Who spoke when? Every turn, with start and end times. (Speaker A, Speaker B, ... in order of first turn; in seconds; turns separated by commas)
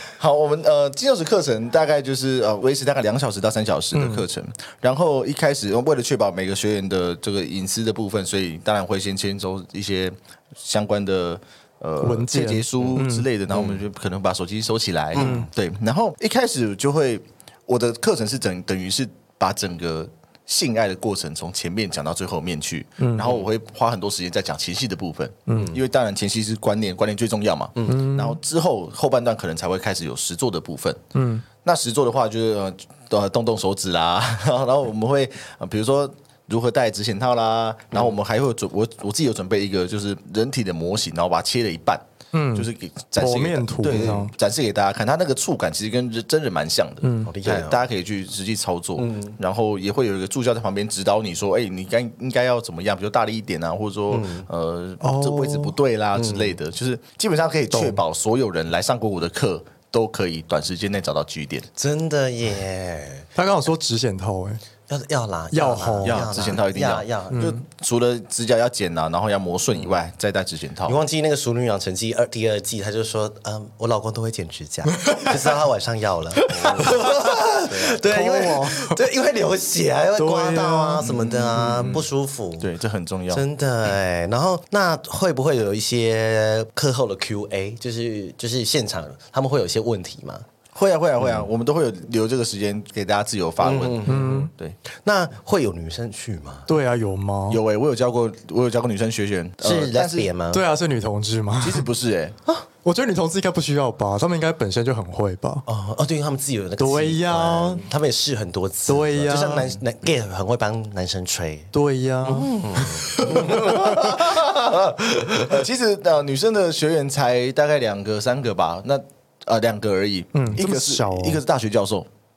Speaker A: 0.2-31.0, Speaker B: 3.9-4.2, Speaker B: 12.0-13.3, Speaker C: 15.2-15.5, Speaker B: 15.2-15.5, Speaker B: 23.0-23.3, Speaker B: 25.5-25.7, Speaker C: 25.5-25.8, Speaker B: 27.9-28.4, Speaker B: 31.1-31.4, Speaker A: 31.6-42.0, Speaker B: 42.3-44.3, Speaker A: 42.5-61.7, Speaker B: 47.0-47.3, Speaker C: 47.2-47.8, Speaker C: 49.0-49.4, Speaker C: 54.1-54.5, Speaker B: 55.0-55.8, Speaker C: 56.2-56.5, Speaker B: 57.7-58.0, Speaker C: 61.8-63.3, Speaker B: 63.4-64.6, Speaker C: 64.9-67.5, Speaker B: 65.5-66.6, Speaker A: 66.0-71.0, Speaker B: 67.3-67.6, Speaker C: 70.9-82.7, Speaker B: 75.0-75.5, Speaker B: 76.5-76.8, Speaker A: 77.7-78.0, Speaker B: 78.0-79.0, Speaker B: 80.2-81.1, Speaker A: 81.0-82.0, Speaker B: 81.6-82.0, Speaker A: 82.6-83.5, Speaker C: 83.3-90.5, Speaker A: 90.7-94.8, Speaker C: 93.6-96.7, Speaker B: 94.1-94.5, Speaker B: 96.7-97.6, Speaker A: 97.5-100.3, Speaker C: 99.6-100.6, Speaker B: 100.5-101.9, Speaker A: 101.6-102.4, Speaker B: 102.8-105.6, Speaker C: 105.7-111.7, Speaker B: 106.8-107.9, Speaker B: 108.9-109.7, Speaker B: 111.7-114.2, Speaker C: 112.2-115.5, Speaker A: 114.0-122.1, Speaker B: 120.3-121.4